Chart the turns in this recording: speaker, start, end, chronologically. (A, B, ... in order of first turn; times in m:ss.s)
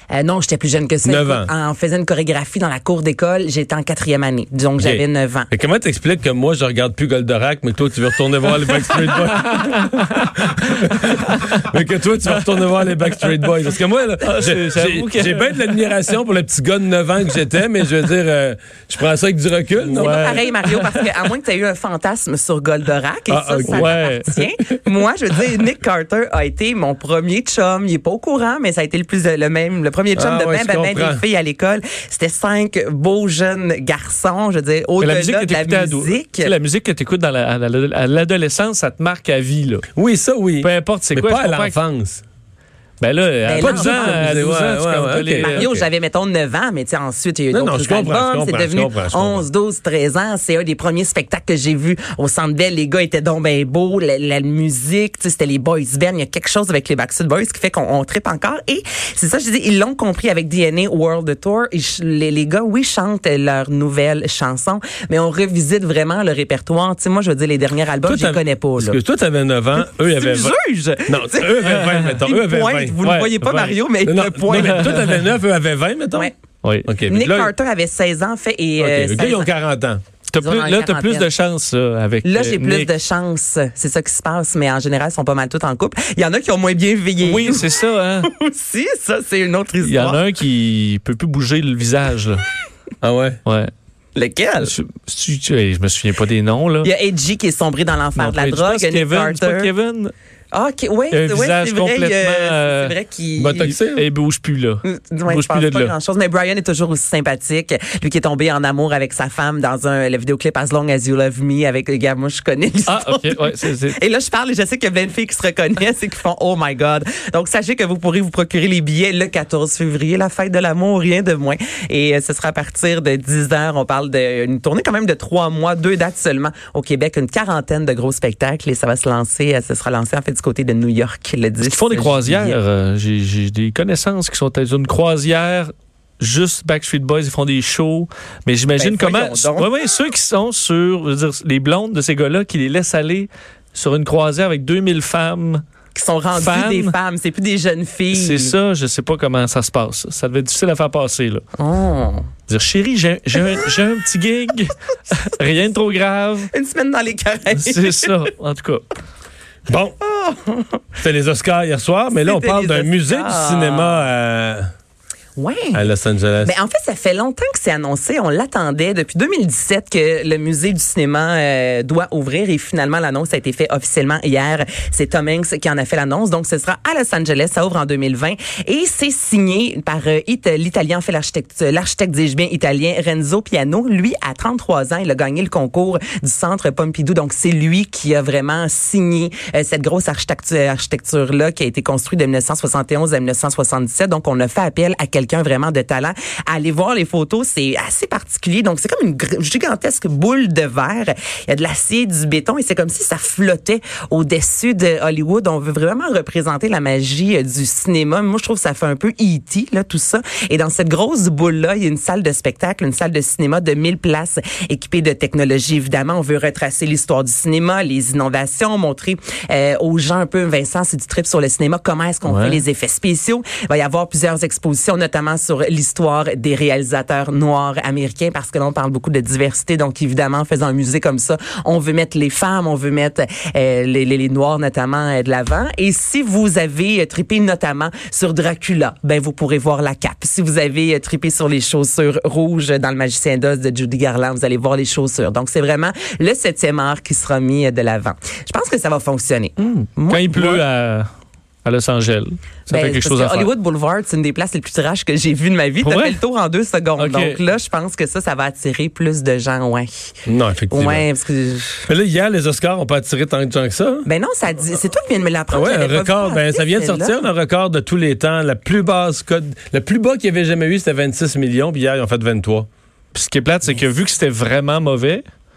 0:00.1-0:05.5 A
0:01.0-0:01.5 B
0:04.8-0:20.4 B
0:08.9-0:11.6 C
0:14.2-0:15.9 C
0:19.9-0:36.5 A
0:19.9-0:21.0 C
0:23.3-0:24.0 B
0:23.7-0:24.3 C
0:30.2-0:31.2 B
0:35.0-0:39.8 C
0:39.9-0:42.2 B
0:40.6-0:41.8 C
0:43.0-0:45.7 C
0:43.4-0:44.2 A
0:43.6-0:45.9 B
0:45.4-1:09.0 A
0:47.5-0:49.4 B
1:08.0-1:10.5 B
1:09.8-1:15.0 A
1:11.1-1:13.0 B
1:11.7-1:12.2 C
1:13.0-1:13.8 C
1:14.0-1:16.3 B
1:14.5-1:15.2 C
1:16.8-1:17.5 B
1:17.0-1:19.5 A
1:18.8-1:20.0 B
1:20.3-1:22.9 C
1:20.4-1:21.3 A
1:22.2-1:30.2 A
1:27.2-1:28.3 C
1:29.8-1:32.5 C
1:33.0-1:33.4 B
1:33.4-1:33.7 C
1:34.2-1:34.7 A
1:34.6-1:36.9 C
1:36.8-1:39.7 A
1:38.2-1:40.1 C
1:40.5-1:43.7 A
1:41.1-1:43.0 C
1:43.4-1:44.0 B
1:43.5-1:46.0 C
1:44.8-2:12.6 A
1:52.8-1:54.0 C
2:11.6-2:25.6 C
2:18.7-2:19.7 A
2:25.9-2:28.5 A
2:26.3-2:27.0 C
2:28.1-2:31.4 C
2:31.6-2:32.3 A
2:32.5-2:36.5 C
2:36.5-2:38.1 A
2:37.5-2:38.9 C
2:39.7-2:40.0 B
2:40.0-2:40.8 A
2:41.0-2:44.7 B
2:42.1-2:44.1 A
2:45.4-2:45.9 A
2:45.7-2:46.5 B
2:46.4-4:10.6 A
3:42.2-3:42.6 C
4:09.6-4:11.1 C
4:11.6-4:13.5 C
4:12.7-4:20.2 A
4:15.8-4:16.2 C
4:17.0-4:17.4 C
4:20.2-4:21.1 B
4:20.7-4:21.9 A
4:21.9-4:24.0 B
4:24.0-4:27.2 A
4:25.5-4:32.7 B
4:33.1-4:35.2 C